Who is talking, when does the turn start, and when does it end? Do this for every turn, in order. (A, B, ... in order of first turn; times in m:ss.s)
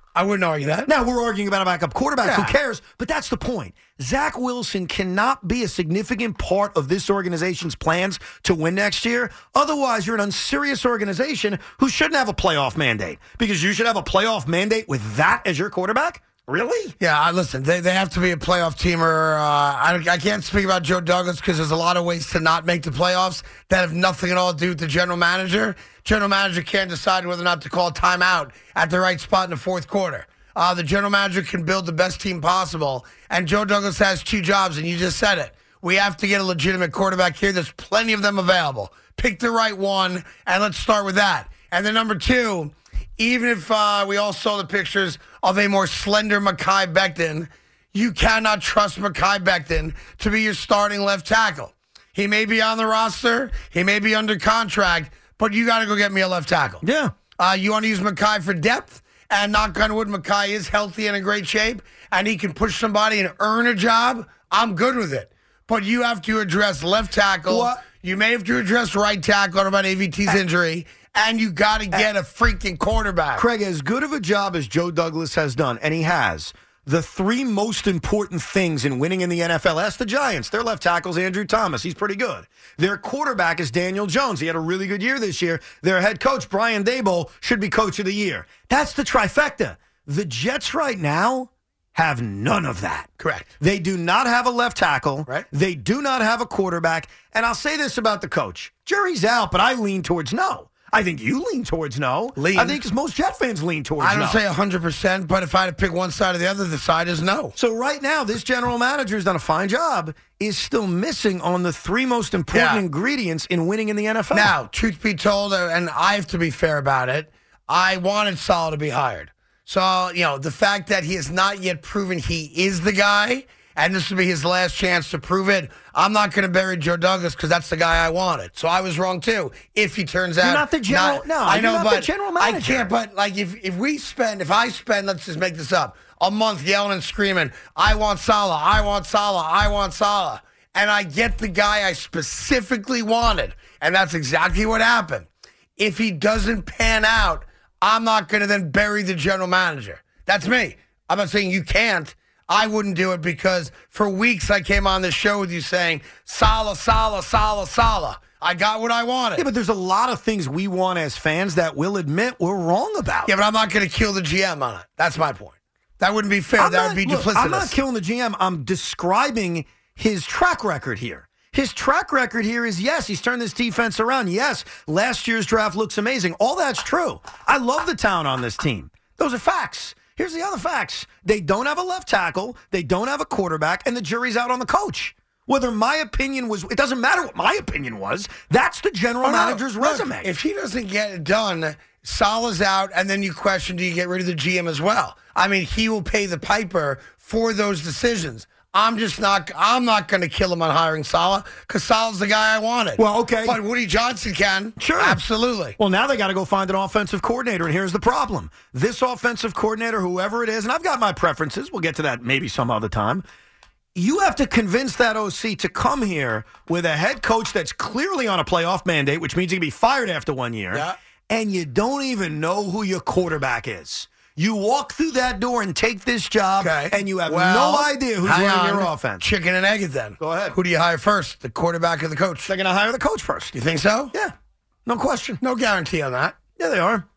0:00.2-0:00.9 A
0:00.9-0:17.0 B
0:02.2-0:02.6 A
0:17.0-0:56.8 A
0:56.8-0:57.1 B
0:57.4-1:13.4 A
1:07.5-1:07.8 B
1:13.4-1:33.1 B
1:33.2-1:33.5 A
1:33.6-1:44.4 B
1:42.4-1:42.8 A
1:44.0-1:47.6 A
1:47.6-1:54.5 B
1:52.5-1:52.8 A
1:54.3-2:39.5 A
2:10.4-2:12.9 B
2:39.4-2:43.3 B
2:43.3-2:47.8 A
2:46.6-3:10.3 B
3:09.2-3:25.8 A
3:23.0-3:23.6 B
3:24.8-3:25.2 B
3:25.8-3:33.2 B
3:34.0-3:49.2 B
3:40.7-3:41.0 A
3:46.6-3:52.5 A
3:50.2-3:50.6 B
3:52.5-3:53.6 B
3:53.5-3:54.1 A
3:54.9-3:55.4 B
3:55.4-3:56.4 A
3:56.6-3:57.0 B